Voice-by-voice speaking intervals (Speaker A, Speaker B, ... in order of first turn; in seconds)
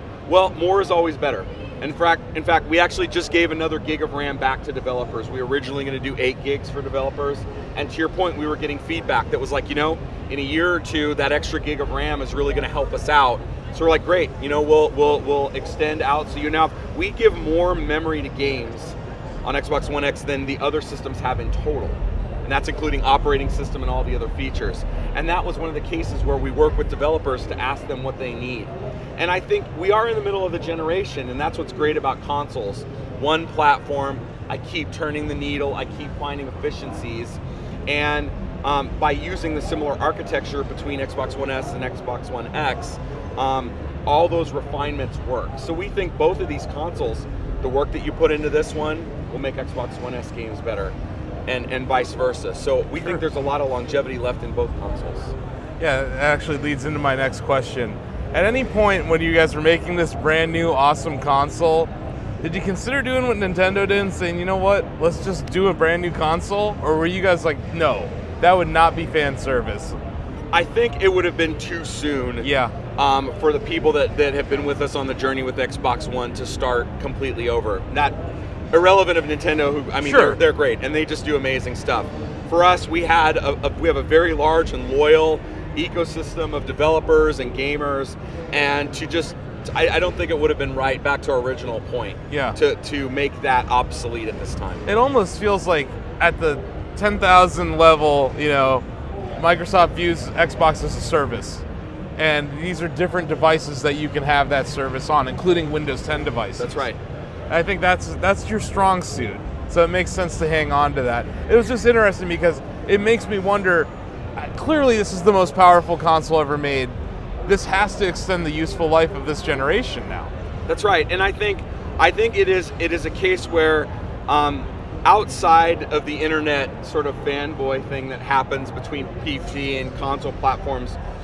Speaker A: 0.3-51.0, 51.5-55.3, 70.5-78.1, 78.7-94.9, 106.6-107.0, 120.7-131.0
Speaker B: 55.8-61.9, 62.4-70.0, 72.4-72.7, 80.0-80.4, 92.3-92.6, 94.9-101.6, 102.2-106.8, 107.5-120.3